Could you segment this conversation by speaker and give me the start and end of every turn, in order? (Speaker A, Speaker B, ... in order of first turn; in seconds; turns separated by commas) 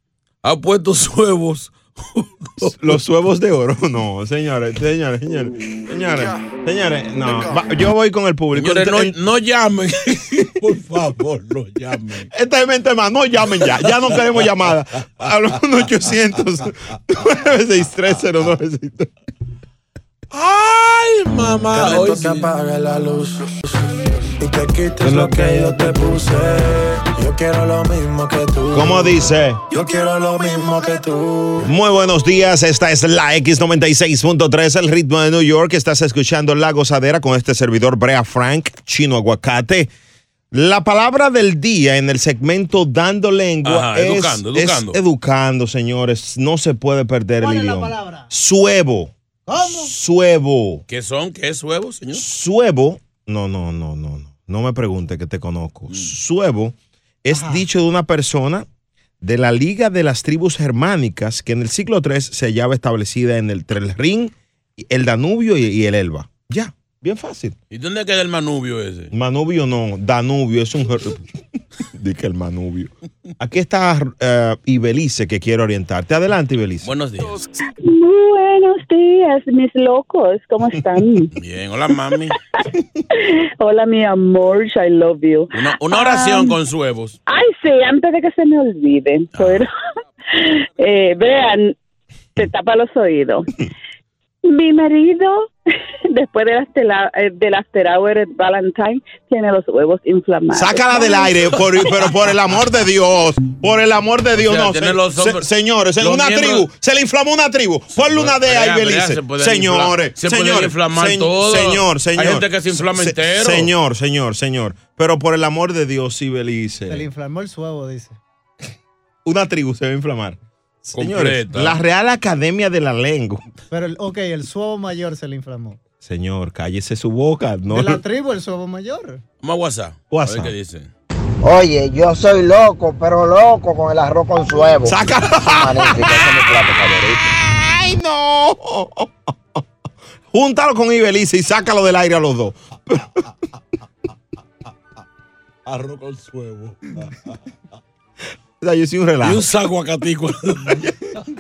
Speaker A: 0.4-2.8, Speaker B: 2.6-9.2, Speaker A: 8.5-12.3, Speaker B: 12.3-19.1, Speaker A: 13.8-14.1, Speaker A: 20.3-22.5, Speaker C: 22.5-23.3, Speaker C: 24.4-24.9, Speaker B: 25.0-25.9, Speaker C: 26.0-26.6, Speaker C: 27.2-28.6, Speaker B: 28.7-29.6, Speaker C: 29.8-31.5, Speaker B: 31.6-39.9, Speaker B: 40.5-50.8, Speaker A: 43.6-45.0, Speaker D: 47.4-48.3, Speaker D: 49.5-49.9, Speaker A: 50.9-52.2, Speaker B: 52.1-58.6, Speaker D: 57.3-57.6, Speaker B: 59.2-67.6, Speaker A: 67.7-69.1, Speaker B: 69.1-71.3, Speaker B: 71.9-76.9, Speaker A: 76.8-77.5, Speaker E: 78.0-81.2, Speaker A: 81.3-82.3, Speaker E: 83.6-85.4, Speaker A: 85.5-87.2, Speaker E: 87.3-89.6, Speaker A: 89.3-89.7, Speaker E: 90.8-91.6, Speaker E: 92.4-93.3, Speaker E: 94.6-95.2, Speaker E: 96.2-96.9, Speaker E: 97.5-101.0, Speaker B: 100.5-117.0, Speaker A: 104.3-105.5, Speaker A: 106.0-106.7, Speaker A: 108.0-113.7, Speaker D: 116.9-118.2, Speaker B: 119.2-123.4, Speaker A: 120.9-121.8, Speaker D: 123.7-125.8, Speaker B: 126.0-128.0, Speaker D: 127.7-129.2, Speaker A: 129.4-130.9, Speaker B: 130.1-130.5, Speaker F: 131.4-134.9, Speaker B: 134.7-139.1, Speaker F: 135.6-136.7, Speaker B: 140.3-143.2, Speaker A: 145.7-146.8, Speaker B: 148.6-149.4, Speaker A: 149.2-150.8